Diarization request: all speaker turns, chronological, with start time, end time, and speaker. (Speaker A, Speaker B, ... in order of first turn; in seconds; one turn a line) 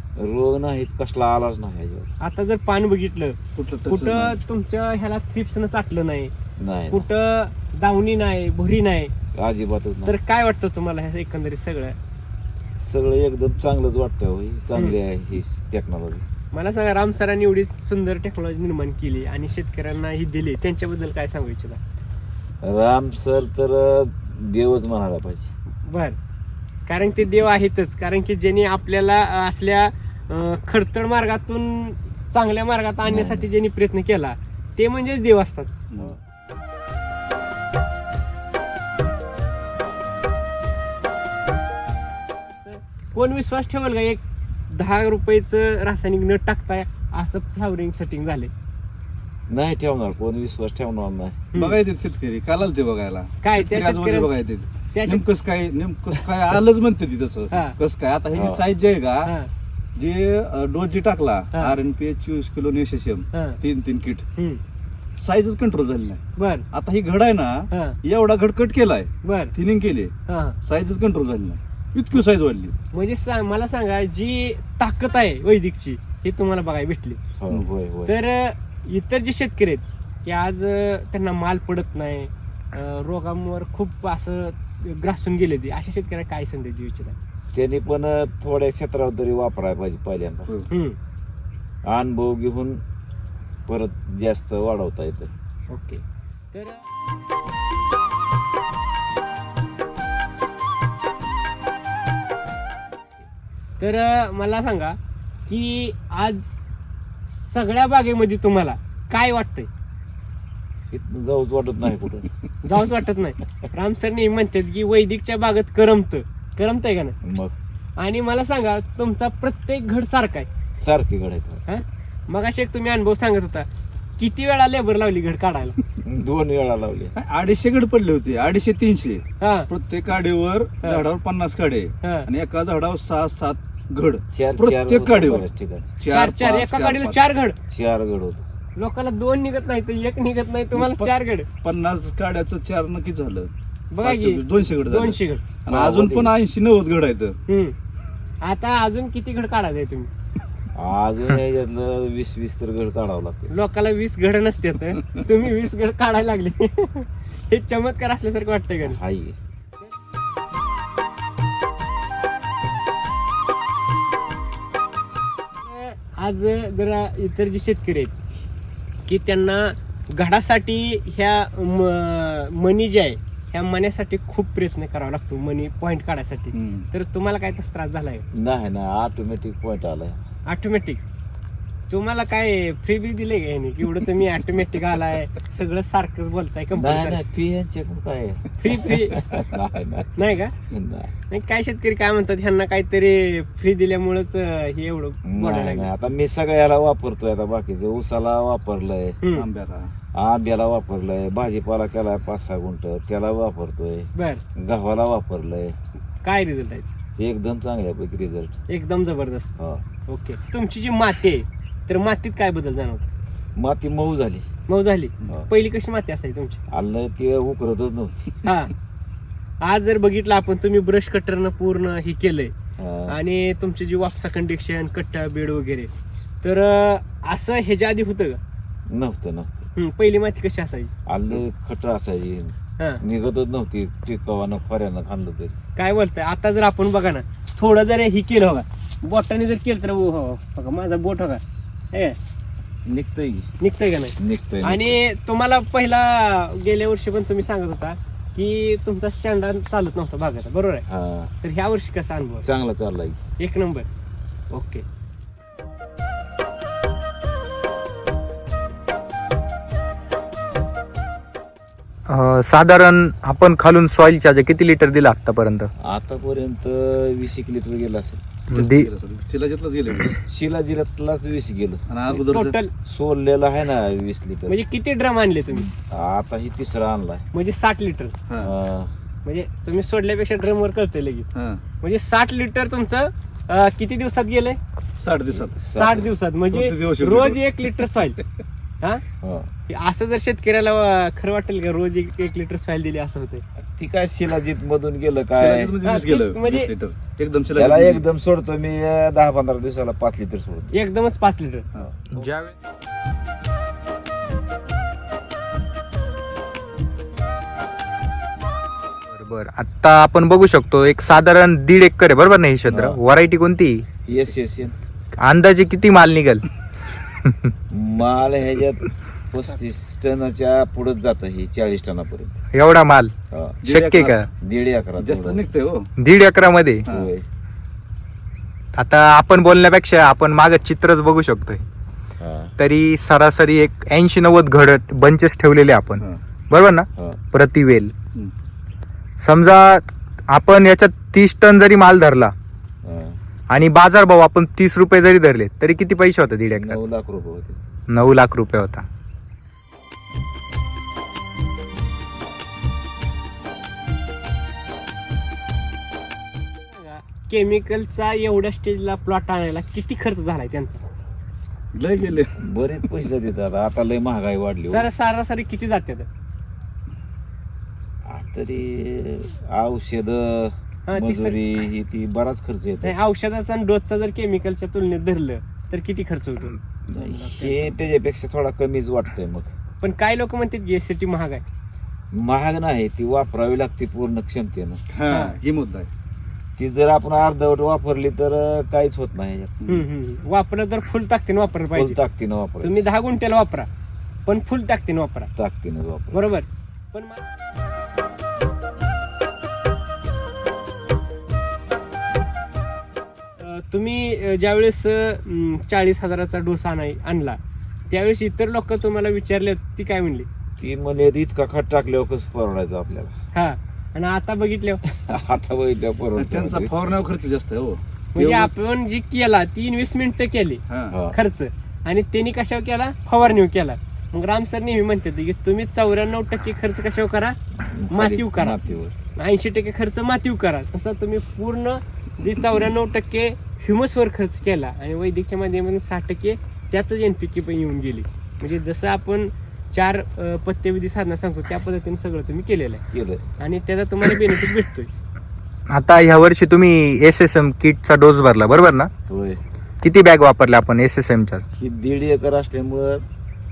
Speaker A: 0.2-2.1
Speaker B: 2.2-6.3
Speaker C: 3.6-4.4
Speaker A: 6.6-7.0
Speaker B: 6.9-9.1
Speaker A: 9.3-10.1
Speaker B: 10.1-12.0
Speaker A: 12.8-16.2
Speaker B: 16.5-21.8
Speaker A: 22.6-25.5
Speaker B: 25.9-26.2
Speaker B: 26.9-35.7
Speaker A: 33.0-33.5
Speaker C: 35.9-36.2
Speaker B: 42.6-48.5
Speaker A: 49.5-51.5
Speaker B: 51.5-51.8
Speaker C: 51.5-59.3
Speaker B: 53.4-54.3
Speaker B: 54.9-55.2
Speaker B: 57.5-57.8
Speaker A: 58.3-58.6
Speaker C: 60.0-64.2
Speaker B: 63.3-63.6
Speaker B: 64.4-64.6
Speaker C: 65.2-72.7
Speaker B: 66.4-66.7
Speaker B: 67.7-68.0
Speaker B: 69.2-69.5
Speaker B: 70.3-70.6
Speaker B: 72.9-77.2
Speaker A: 77.4-78.1
Speaker B: 78.1-87.2
Speaker A: 87.5-90.5
Speaker B: 90.7-91.0
Speaker A: 91.9-92.8
Speaker A: 93.7-95.3
Speaker B: 95.7-96.0
Speaker B: 96.5-96.8
Speaker B: 103.8-106.6
Speaker B: 107.3-109.7
Speaker A: 110.9-112.3
Speaker B: 112.6-117.2
Speaker A: 117.2-117.6
Speaker B: 118.0-120.5
Speaker A: 120.8-121.7
Speaker B: 121.7-123.7
Speaker B: 124.2-125.8
Speaker A: 126.0-127.2
Speaker C: 127.2-135.5
Speaker B: 129.4-129.7
Speaker B: 132.0-132.3
Speaker A: 134.3-135.9
Speaker C: 136.0-137.2
Speaker B: 136.0-137.6
Speaker A: 137.7-138.4
Speaker B: 138.8-141.5
Speaker C: 140.7-141.1
Speaker C: 141.6-143.5
Speaker B: 143.9-145.4
Speaker C: 144.0-147.4
Speaker A: 145.7-146.3
Speaker B: 147.5-147.8
Speaker B: 148.4-150.1
Speaker A: 150.8-153.5
Speaker B: 153.5-159.0
Speaker A: 158.8-159.4
Speaker B: 165.6-168.2
Speaker B: 169.1-178.2
Speaker C: 176.5-176.9
Speaker A: 178.3-180.2
Speaker B: 180.5-181.0
Speaker B: 181.9-187.2
Speaker A: 186.8-191.1
Speaker B: 188.6-189.2
Speaker B: 190.2-190.6
Speaker B: 191.3-195.9
Speaker A: 195.3-199.2
Speaker B: 199.2-199.5
Speaker C: 199.4-199.9
Speaker A: 200.2-205.8
Speaker B: 204.2-204.4
Speaker B: 206.2-206.9
Speaker A: 207.2-208.6
Speaker B: 208.7-209.6
Speaker B: 210.1-213.1
Speaker A: 213.6-214.5
Speaker B: 214.7-216.6
Speaker A: 215.2-215.5
Speaker A: 216.7-218.4
Speaker B: 218.4-218.7
Speaker B: 219.6-222.5
Speaker A: 222.8-223.2
Speaker B: 223.1-225.9
Speaker B: 226.4-228.4
Speaker A: 228.9-229.7
Speaker B: 229.8-230.9
Speaker A: 231.1-235.6
Speaker B: 235.8-242.2
Speaker A: 242.9-243.5
Speaker B: 243.6-250.9
Speaker A: 244.2-245.0
Speaker A: 250.9-251.3
Speaker B: 251.4-252.5
Speaker A: 252.4-253.2
Speaker B: 253.4-253.9
Speaker B: 254.5-254.8
Speaker D: 262.1-265.7
Speaker A: 265.8-268.2
Speaker D: 268.5-268.9
Speaker C: 268.5-270.2
Speaker A: 270.2-271.9
Speaker C: 271.9-272.6
Speaker B: 272.1-272.7
Speaker A: 272.9-274.6
Speaker B: 274.5-275.7
Speaker A: 275.5-277.3
Speaker B: 277.3-278.1
Speaker A: 278.4-278.9
Speaker B: 279.2-281.3
Speaker C: 281.3-281.6
Speaker B: 281.8-284.6
Speaker C: 285.0-285.6
Speaker A: 285.3-286.1
Speaker B: 285.7-288.2
Speaker C: 286.5-287.9
Speaker A: 289.2-289.5
Speaker B: 289.7-293.4
Speaker A: 293.8-295.8
Speaker C: 295.4-298.0
Speaker B: 295.8-296.7
Speaker A: 297.6-300.8
Speaker B: 300.7-301.7
Speaker A: 301.8-302.1
Speaker D: 302.1-302.6
Speaker D: 309.1-313.9
Speaker A: 312.7-313.0
Speaker A: 314.1-314.8
Speaker D: 315.2-316.5
Speaker D: 317.2-317.5
Speaker A: 317.7-322.4
Speaker D: 322.5-323.1
Speaker A: 323.3-323.6
Speaker C: 323.6-324.2
Speaker D: 323.7-324.3
Speaker A: 324.4-325.5
Speaker C: 325.0-325.9
Speaker D: 326.0-326.9
Speaker C: 326.9-327.1
Speaker A: 326.9-327.2
Speaker D: 328.8-331.6
Speaker A: 332.2-332.5
Speaker D: 332.6-337.9
Speaker D: 339.2-342.3
Speaker A: 342.8-343.2
Speaker D: 343.5-346.8
Speaker A: 346.5-347.6
Speaker D: 347.9-348.9
Speaker B: 356.7-360.8
Speaker C: 361.7-362.4
Speaker A: 362.4-364.9
Speaker B: 364.7-366.1
Speaker A: 368.1-373.0
Speaker B: 370.9-371.4
Speaker B: 372.8-377.8
Speaker A: 376.9-379.5
Speaker B: 379.8-381.4
Speaker A: 382.1-384.8
Speaker C: 384.9-385.9
Speaker B: 385.1-385.4
Speaker A: 386.6-389.6
Speaker B: 389.7-392.0
Speaker A: 391.7-392.8
Speaker B: 392.6-393.7
Speaker B: 394.3-395.3
Speaker A: 395.4-396.2
Speaker B: 396.1-397.2
Speaker B: 403.4-407.4
Speaker B: 407.9-410.3
Speaker A: 410.6-413.1
Speaker B: 413.3-414.8
Speaker A: 414.9-416.7
Speaker C: 416.2-418.5
Speaker B: 418.1-427.4
Speaker C: 420.7-421.0
Speaker A: 420.9-421.2
Speaker A: 427.6-428.9
Speaker B: 427.9-428.6
Speaker B: 429.2-442.8
Speaker A: 442.9-443.3
Speaker B: 443.4-444.9
Speaker D: 445.7-448.9
Speaker A: 449.1-449.4
Speaker D: 449.8-451.4
Speaker A: 451.5-453.1